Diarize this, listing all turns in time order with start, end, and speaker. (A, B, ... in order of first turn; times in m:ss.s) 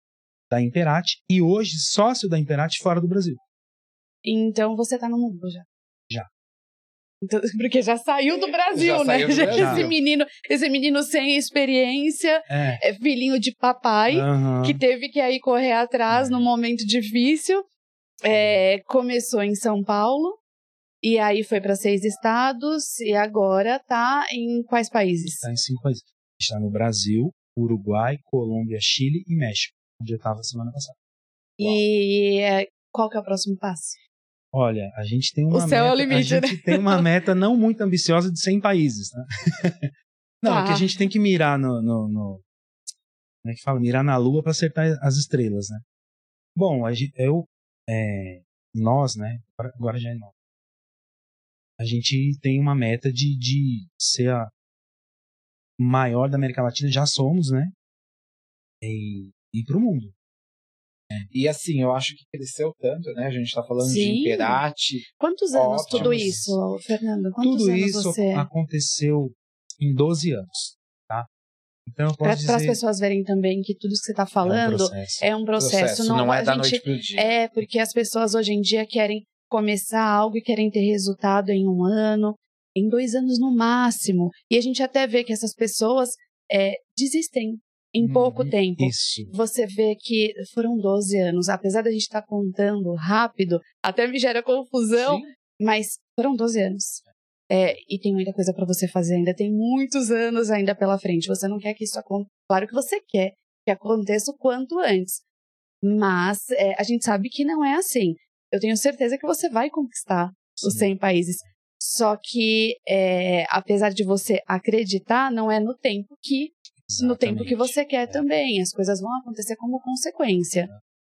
0:00.5-0:03.4 A
0:04.2-0:05.7 B
0:07.2-0:17.6 B
0:08.7-0:10.0 C
0:09.5-0:09.9 A
0:12.5-0:12.8 A
0:14.1-0:14.8 A
0:16.1-0:16.5 A
0:18.2-0:20.4 B
0:18.3-0:18.6 A
0:21.0-0:25.5 B
0:25.3-0:31.0 A
0:31.6-0:34.0 B
0:34.5-0:42.4 A
0:35.5-0:37.0 B
0:40.4-0:40.9 B
0:43.4-0:45.8 A
0:46.6-0:50.3 A
0:51.8-0:54.5 A
0:55.8-0:57.7 A
0:58.8-1:00.2 A
1:01.3-1:06.3 C
1:03.8-1:04.6 B
1:05.2-1:08.5 B
1:05.9-1:06.6 A
1:07.4-1:11.3 A
1:11.9-1:12.8 A
1:12.2-1:45.2 B
1:14.4-1:15.2 A
1:15.6-1:17.4 C
1:28.1-1:29.3 A
1:35.0-1:35.3 C
1:45.8-2:00.7 B
1:50.6-1:50.9 A
1:56.8-1:58.2 A